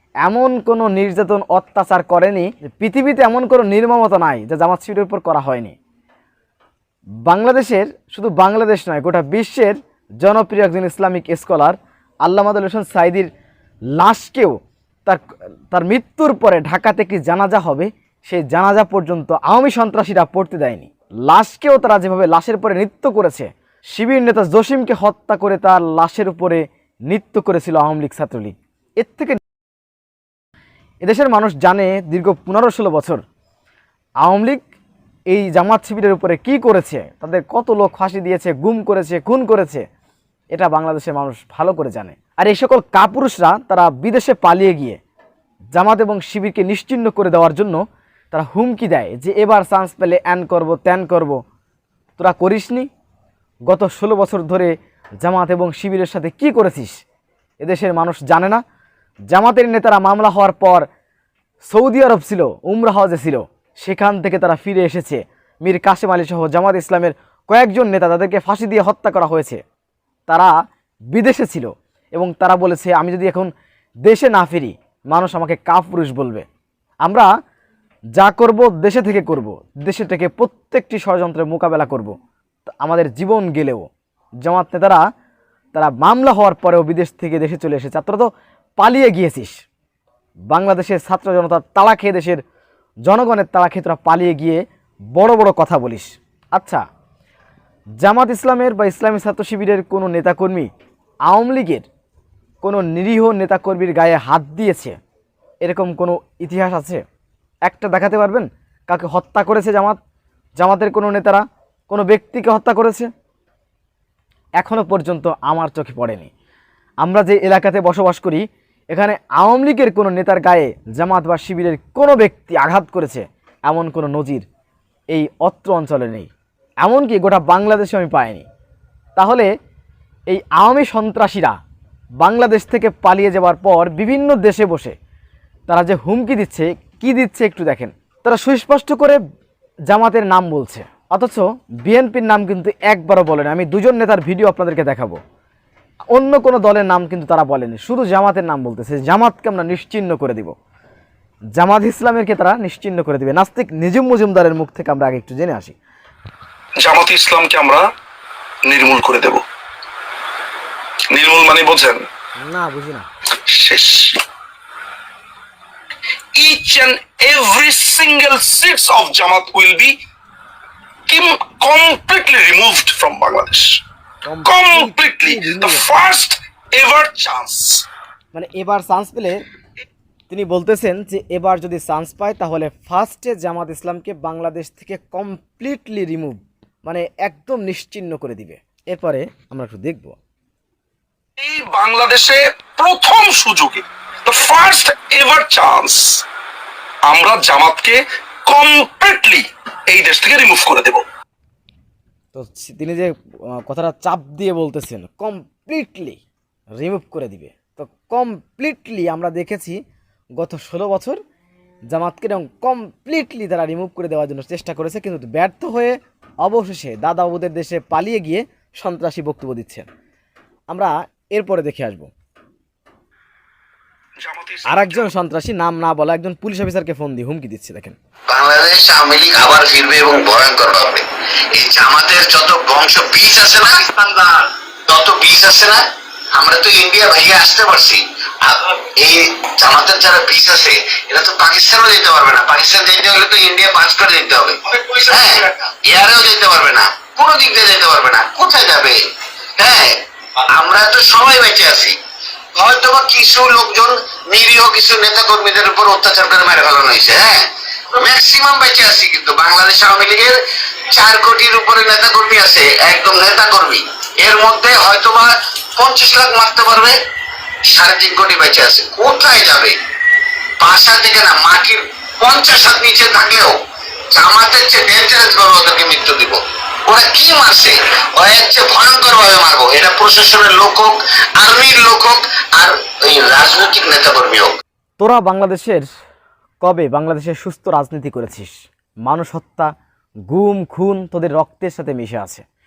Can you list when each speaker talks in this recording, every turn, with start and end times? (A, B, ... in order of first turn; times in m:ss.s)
0:00.2-0:05.8 A
0:07.2-0:13.3 A
0:13.9-0:29.4 A
0:31.0-0:33.2 A
0:34.2-0:34.6 A
0:35.3-0:39.8 A
0:40.5-0:45.0 A
0:45.7-0:51.4 A
0:52.2-0:52.9 A
0:53.7-0:57.0 A
0:57.6-0:58.6 A
0:59.3-1:00.9 A
1:01.7-1:09.6 A
1:10.3-1:10.5 A
1:11.1-1:13.5 A
1:14.0-1:16.5 A
1:17.0-1:17.3 A
1:18.2-1:23.9 A
1:24.4-1:25.0 A
1:25.7-1:29.6 A
1:30.5-1:32.4 A
1:33.0-1:36.8 A
1:38.0-1:40.7 A
1:41.3-1:41.9 A
1:42.6-1:45.0 A
1:45.6-1:47.0 A
1:47.6-1:50.0 A
1:50.6-1:53.1 A
1:54.6-1:56.3 A
1:57.0-2:04.5 A
2:05.1-2:06.3 A
2:06.8-2:08.5 A
2:09.2-2:09.5 A
2:10.3-2:11.6 A
2:12.2-2:15.0 A
2:15.7-2:19.2 A
2:19.9-2:25.2 A
2:26.1-2:30.5 A
2:31.6-2:35.8 A
2:36.8-2:37.8 B
2:38.7-2:39.4 B
2:41.1-2:42.0 B
2:42.4-2:43.1 A
2:43.5-2:44.2 B
2:46.4-2:50.0 B
2:51.1-2:53.8 B
2:54.2-2:56.0 A
2:54.5-2:57.8 B
2:58.3-2:59.4 A
3:00.3-3:10.2 A
3:11.4-3:16.2 B
3:17.1-3:21.0 B
3:22.3-3:26.2 A
3:26.8-3:29.8 A
3:30.4-3:31.2 A
3:31.9-3:39.9 A
3:40.7-3:42.1 A
3:44.2-3:45.1 B
3:44.7-3:48.0 A
3:48.3-3:51.0 C
3:51.6-3:55.8 C
3:56.4-4:09.0 C
4:09.6-4:12.0 C
4:12.6-4:20.4 C
4:20.9-4:27.0 C
4:27.7-4:29.8 C
4:30.6-4:33.6 C
4:34.1-4:44.5 C
4:45.0-4:45.9 A
4:46.6-4:49.7 A
4:50.3-4:52.4 A